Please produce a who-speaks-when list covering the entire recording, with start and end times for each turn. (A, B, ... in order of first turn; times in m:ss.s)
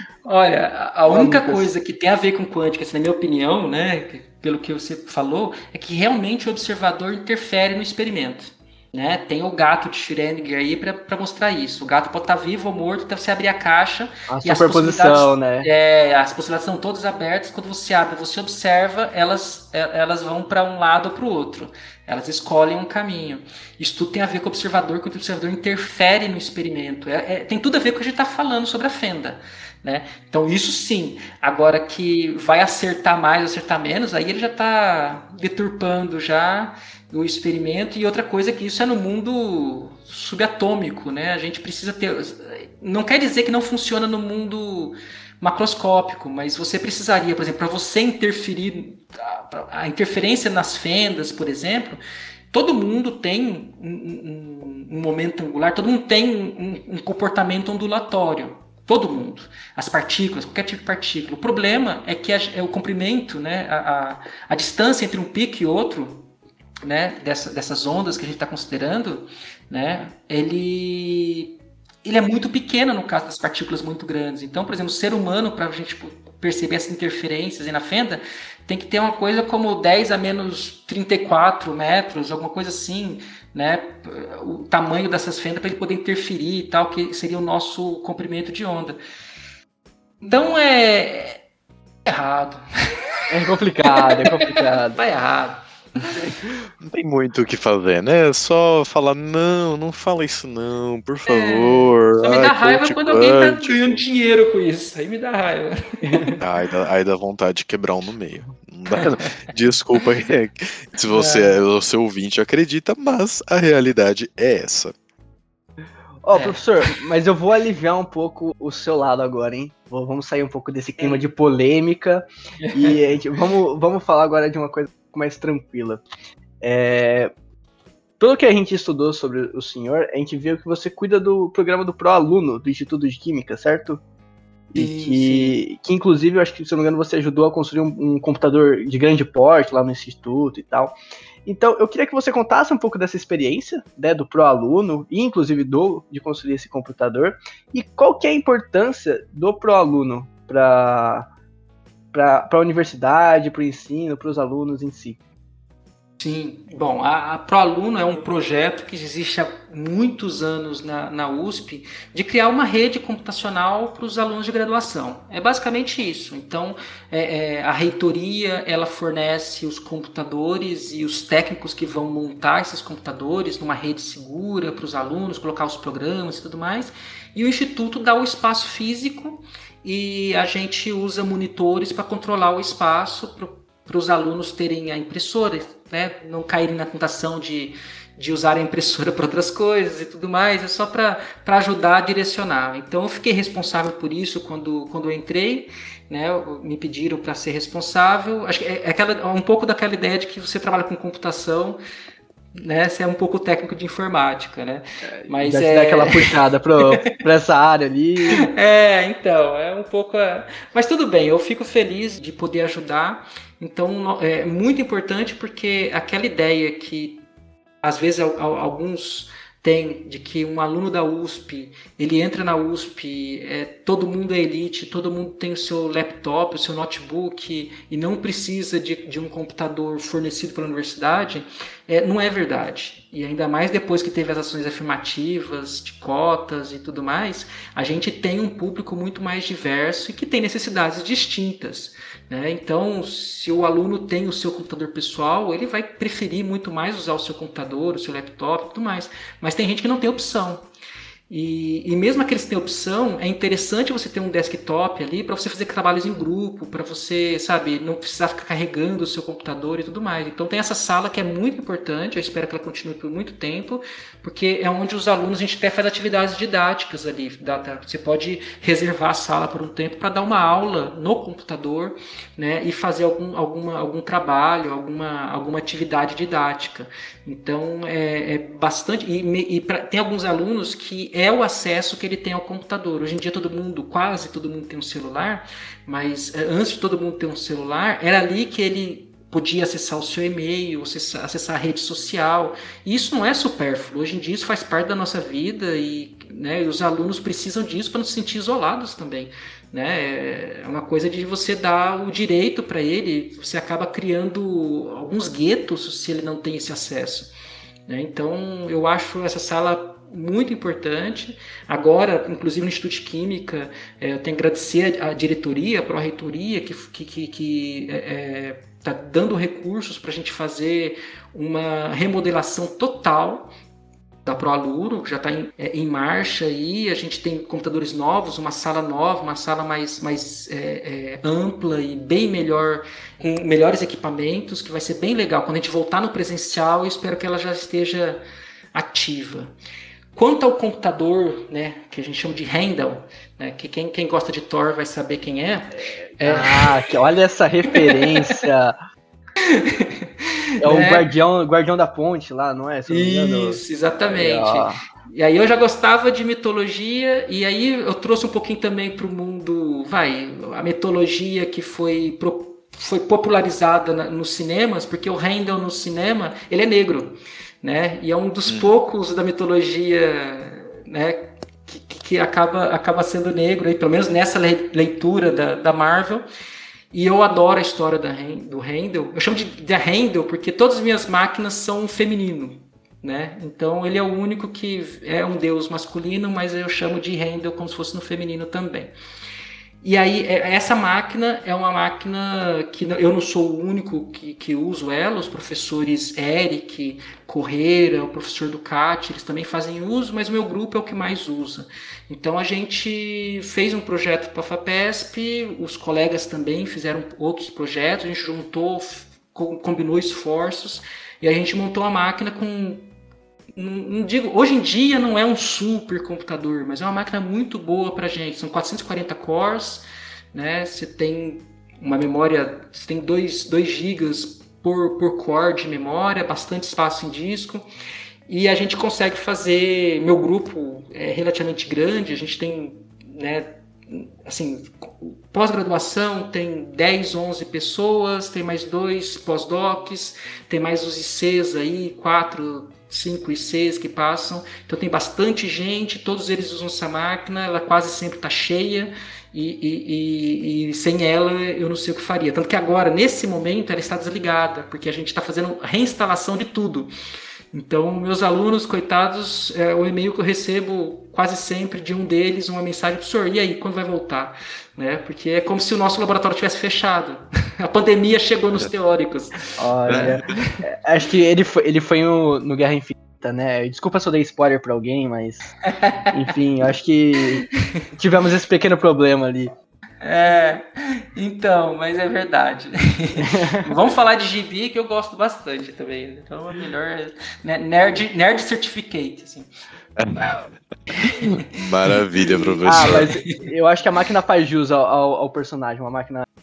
0:00.2-0:52.0 A
0:01.1-0:01.7 B
0:14.3-0:15.7 B
0:52.5-1:06.3 A
1:06.8-1:29.0 A
1:30.2-1:31.4 A
1:32.0-1:32.6 A
1:33.3-1:35.0 B
1:33.8-1:36.2 A
1:36.8-1:44.0 C
1:41.3-1:46.4 A
1:46.0-1:46.3 B
1:46.4-1:54.9 C
1:51.1-1:51.6 A
1:56.2-2:06.0 B
1:56.3-1:56.6 A
2:01.0-2:01.3 A
2:02.6-2:03.0 A
2:06.6-2:07.3 B
2:08.2-2:14.0 B
2:14.7-2:20.9 B
2:14.7-2:15.6 A
2:21.4-2:31.3 B
2:32.1-2:35.2 B
2:36.2-3:21.8 A
3:22.6-3:26.3 A
3:25.1-3:28.5 B
3:26.9-3:27.2 A
3:28.3-3:37.2 A
3:37.8-4:10.6 A
4:11.3-5:07.3 A
5:07.9-5:23.5 A
5:24.2-5:38.2 A
5:38.7-5:39.5 A
5:40.1-5:46.7 A
5:46.2-5:48.8 B
5:47.7-5:48.4 A
5:49.5-5:51.0 A
5:50.6-5:54.8 B
5:52.9-6:16.2 A
6:08.5-6:08.7 C
6:16.9-6:28.9 A
6:29.8-6:52.9 A
6:53.6-7:07.6 A
7:08.3-7:36.9 A
7:37.5-7:50.5 A
7:49.6-7:55.5 B
7:49.9-7:50.1 C
7:55.7-7:56.1 A
7:56.1-7:59.5 B
8:00.0-8:00.6 A
8:01.1-8:09.5 A
8:03.3-8:03.6 B
8:10.0-8:10.4 C
8:10.9-8:11.4 A
8:11.4-8:13.1 C
8:12.2-8:13.4 A
8:12.6-8:16.2 B